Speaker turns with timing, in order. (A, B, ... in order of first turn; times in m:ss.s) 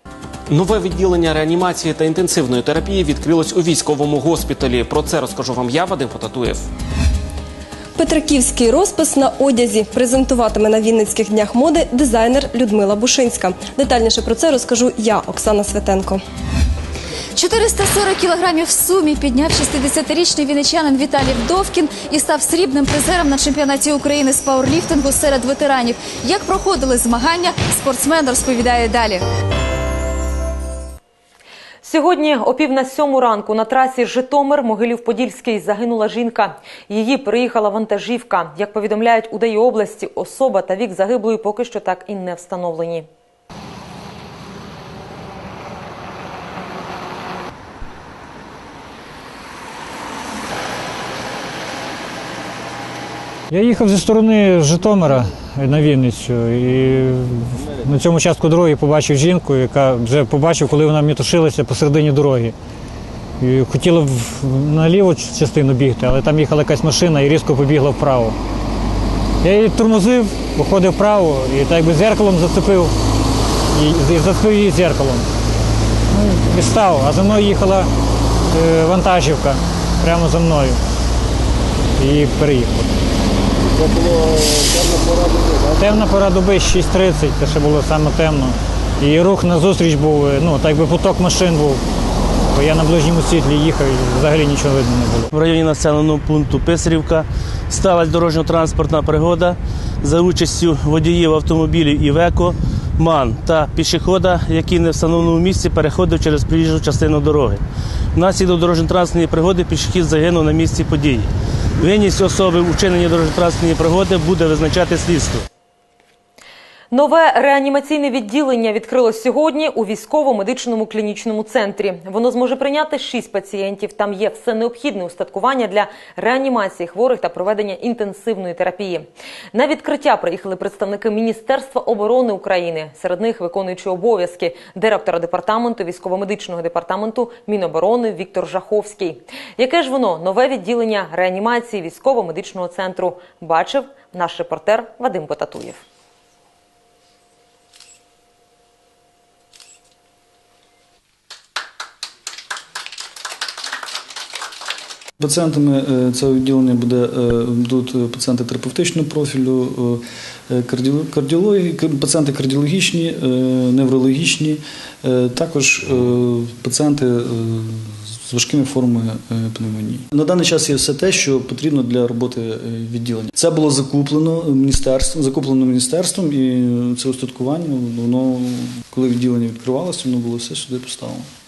0:00.5-0:06.6 A
0:08.0-0:16.2 B
0:17.4-0:29.2 C
0:31.8-0:43.1 D
0:53.5-1:02.6 E
1:03.4-1:08.4 E
1:09.4-1:12.9 E
1:13.7-1:15.3 E
1:16.1-1:17.9 E
1:18.5-1:20.8 E
1:22.0-1:22.9 E
1:25.8-1:31.8 E
1:32.5-1:35.3 E
1:35.3-1:47.6 F
1:48.2-1:51.3 F
1:51.8-1:55.4 F
1:56.9-2:25.8 D
2:35.2-3:01.3 G